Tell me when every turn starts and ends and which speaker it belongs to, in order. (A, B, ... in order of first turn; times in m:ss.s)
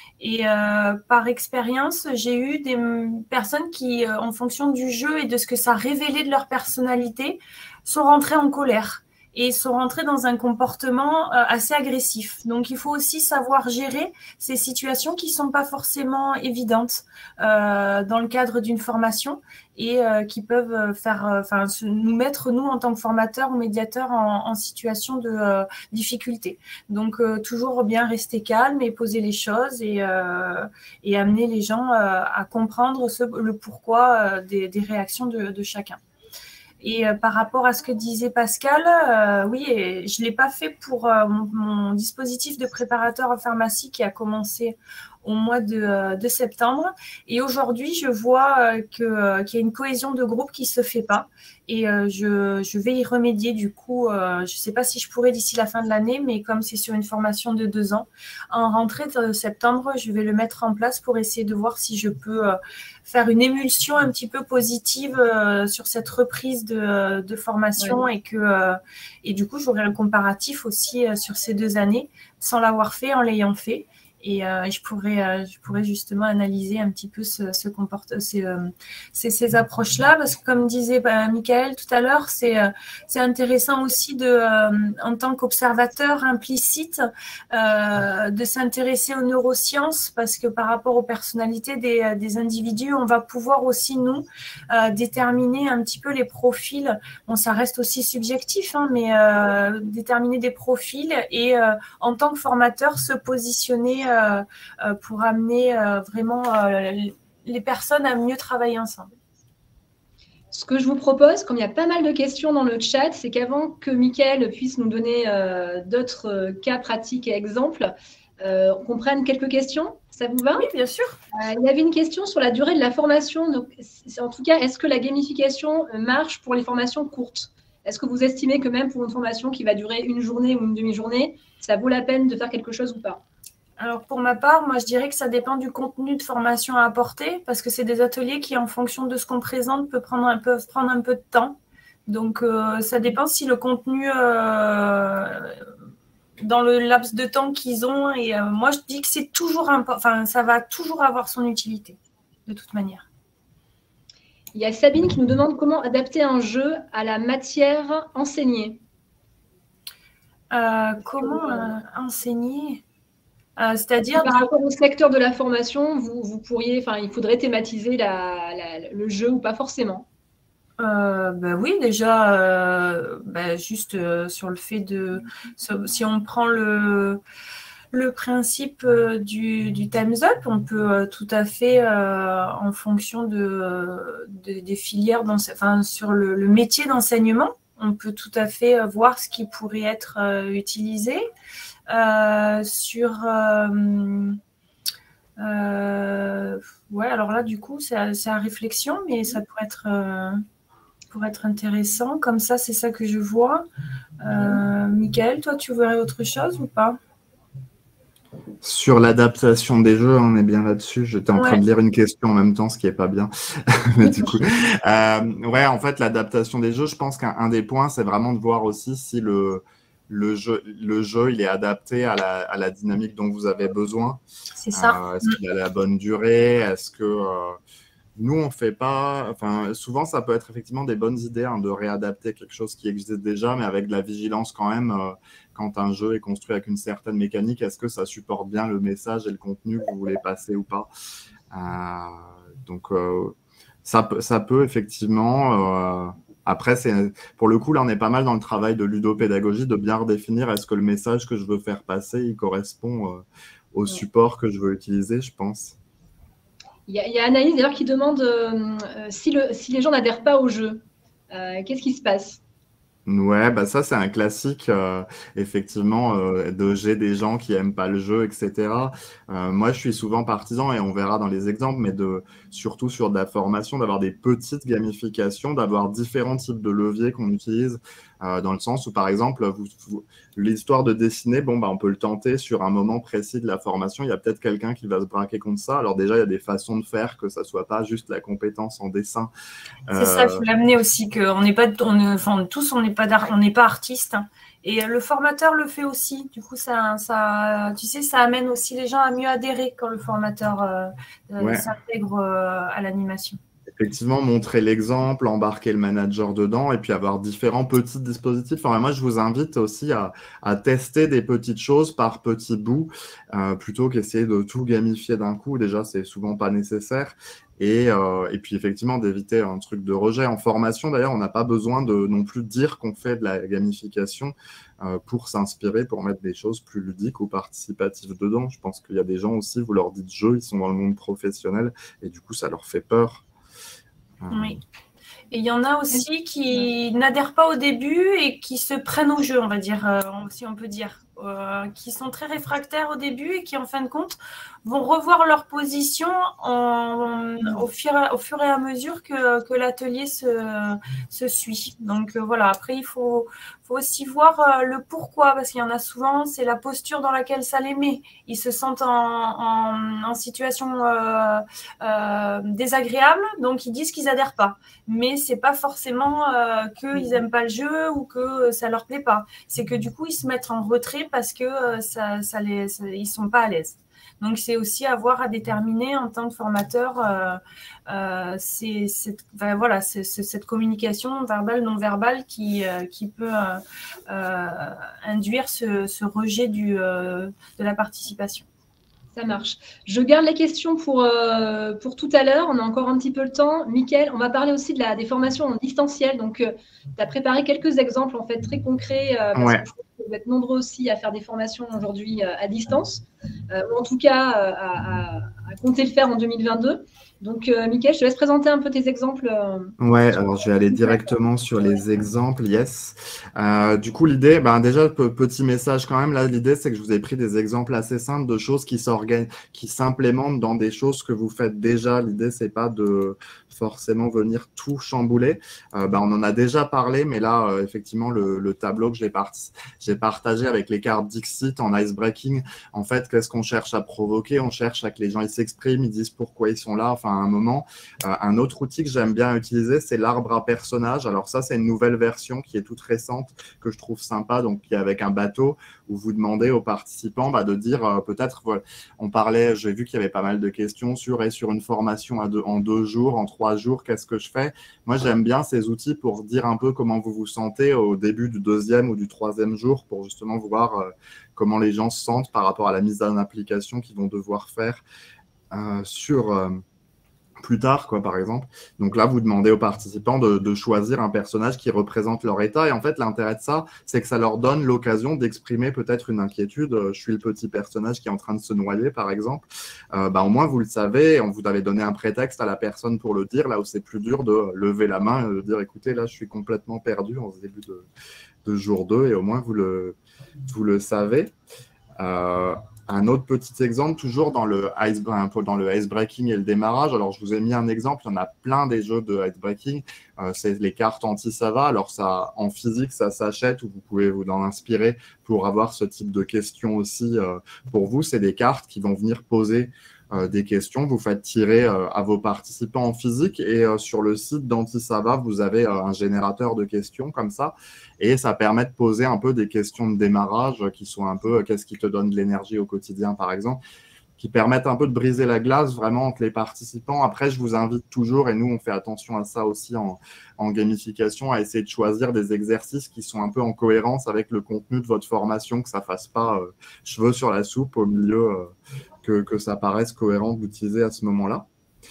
0:00.2-0:36.0 A
0:36.8-1:49.1 A
1:50.5-2:00.7 B
2:00.6-2:01.2 A
2:01.3-2:13.2 B
2:13.8-2:25.6 A
2:26.4-2:33.0 A
2:34.5-2:38.8 B
2:40.5-2:42.8 A
2:41.2-2:41.7 B
2:43.6-2:44.5 A
2:44.2-2:50.1 B
2:50.8-2:57.2 A
2:57.9-3:11.2 A
3:11.9-3:14.4 A
3:15.4-3:20.4 A
3:21.1-3:23.6 A
3:24.2-3:27.0 A
3:28.6-3:44.2 C
3:31.3-3:31.6 A
3:44.6-3:45.4 A
3:44.7-3:47.6 C
3:48.2-4:00.9 C
4:01.5-4:15.8 C
4:16.9-4:22.4 B
4:23.0-4:49.3 C
4:49.9-4:50.4 C
4:49.9-5:03.4 A
5:01.4-5:01.7 C
5:03.8-5:33.2 C
5:34.2-5:34.6 C
5:34.3-5:34.6 A
5:35.3-6:28.4 A
6:06.9-6:07.2 B
6:29.1-6:49.8 B
6:39.3-6:39.6 C
6:49.8-7:44.8 C
6:50.7-6:51.1 B
7:45.5-7:46.6 C
7:47.4-8:07.9 C
8:08.4-8:10.0 C
8:10.5-8:11.3 C
8:12.0-8:43.6 C
8:44.2-9:01.5 C